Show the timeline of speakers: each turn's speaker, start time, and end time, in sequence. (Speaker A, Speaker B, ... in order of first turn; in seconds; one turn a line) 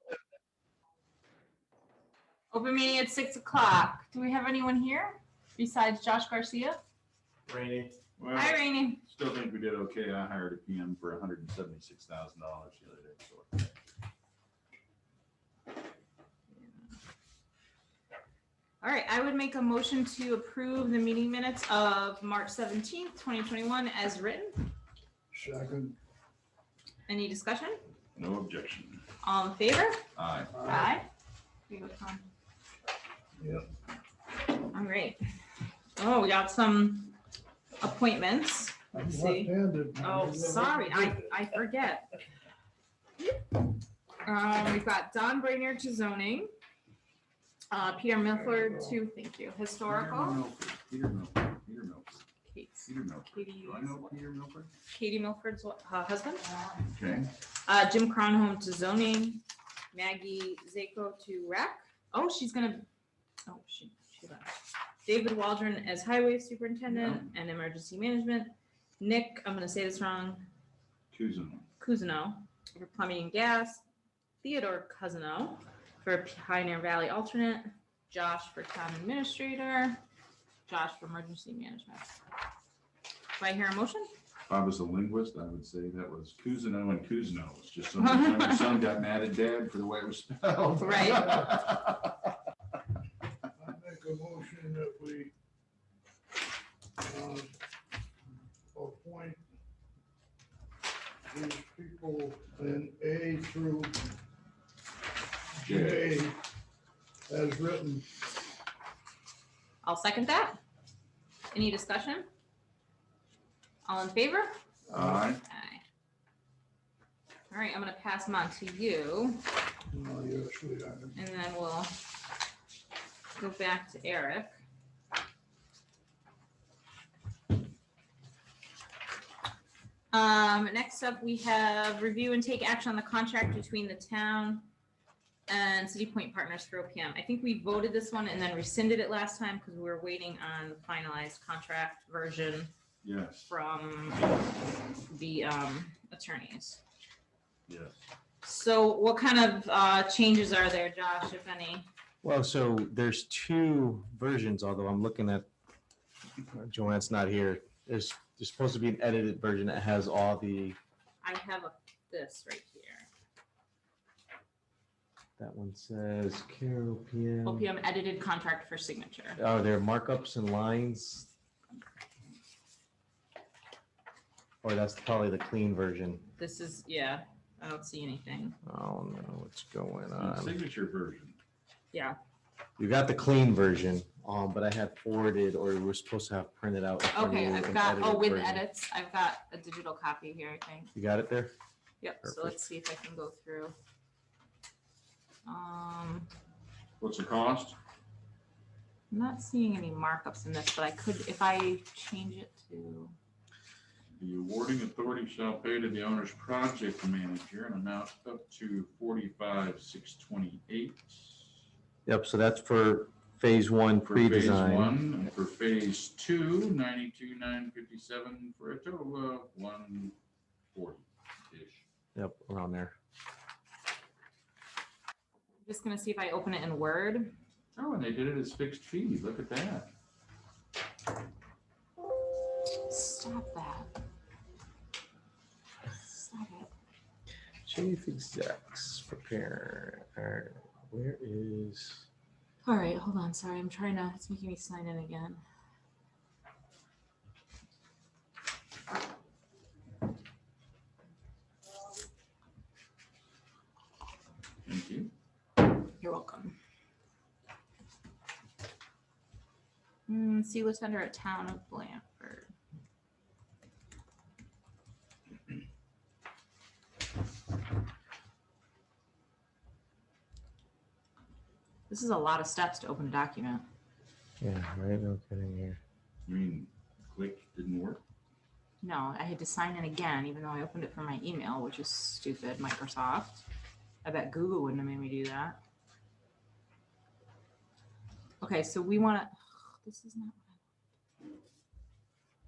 Speaker A: 2.5-6.8
Speaker B: 7.5-7.9
Speaker C: 8.2-13.7
Speaker A: 8.3-9.0
Speaker A: 16.5-16.9
Speaker A: 18.8-24.7
Speaker D: 25.3-26.0
Speaker A: 27.1-27.8
Speaker C: 28.1-29.0
Speaker A: 29.2-30.0
Speaker C: 30.1-30.5
Speaker D: 30.5-30.9
Speaker A: 30.6-31.1
Speaker A: 31.7-32.2
Speaker D: 33.4-33.7
Speaker A: 34.7-35.2
Speaker A: 36.0-37.1
Speaker A: 37.8-42.1
Speaker D: 38.9-41.4
Speaker A: 44.2-46.5
Speaker A: 47.7-50.4
Speaker C: 49.9-52.2
Speaker A: 52.5-54.1
Speaker C: 52.9-54.7
Speaker A: 54.9-56.9
Speaker C: 56.9-57.3
Speaker A: 57.6-62.9
Speaker A: 63.5-64.5
Speaker A: 65.0-70.5
Speaker C: 66.9-67.2
Speaker C: 71.1-71.7
Speaker A: 71.8-73.8
Speaker A: 74.4-80.0
Speaker A: 80.7-82.1
Speaker A: 83.4-84.1
Speaker C: 84.5-92.1
Speaker A: 88.0-88.7
Speaker A: 90.8-91.5
Speaker D: 93.6-95.3
Speaker D: 97.0-97.5
Speaker D: 98.7-99.4
Speaker D: 101.3-103.9
Speaker D: 105.6-106.4
Speaker C: 105.6-106.1
Speaker D: 107.3-108.1
Speaker A: 109.8-110.6
Speaker A: 111.5-112.3
Speaker A: 113.8-114.6
Speaker C: 114.9-115.4
Speaker D: 114.9-115.2
Speaker A: 115.4-115.8
Speaker A: 117.5-119.4
Speaker D: 119.9-121.2
Speaker A: 121.1-121.9
Speaker A: 123.3-124.6
Speaker A: 130.1-134.7
Speaker A: 135.5-142.7
Speaker C: 143.0-143.5
Speaker A: 143.5-144.3
Speaker A: 145.1-146.8
Speaker C: 147.7-148.0
Speaker A: 148.4-151.8
Speaker B: 152.2-155.5
Speaker B: 156.5-160.8
Speaker A: 161.2-163.1
Speaker B: 165.4-167.7
Speaker A: 167.4-169.4
Speaker B: 169.4-171.3
Speaker B: 174.6-176.3
Speaker A: 176.4-178.6
Speaker B: 178.6-180.6
Speaker C: 180.2-181.4
Speaker A: 181.9-182.2
Speaker B: 182.8-188.7
Speaker A: 187.1-190.9
Speaker B: 190.9-191.5
Speaker A: 192.0-193.7
Speaker B: 192.2-192.5
Speaker A: 195.4-196.3
Speaker C: 197.0-197.8
Speaker A: 199.1-203.1
Speaker C: 204.1-211.5
Speaker B: 212.1-215.0
Speaker C: 214.0-220.1
Speaker C: 220.7-221.8
Speaker B: 222.1-222.9
Speaker A: 225.6-227.3
Speaker C: 227.7-229.9
Speaker A: 232.8-233.9
Speaker A: 235.9-236.7
Speaker B: 237.6-242.1
Speaker A: 242.6-245.4
Speaker C: 254.6-255.1
Speaker A: 256.0-256.6
Speaker A: 260.1-262.5
Speaker A: 271.9-273.6
Speaker B: 274.4-275.8
Speaker C: 276.2-278.0
Speaker A: 278.8-283.4
Speaker A: 284.0-285.6
Speaker A: 288.4-290.6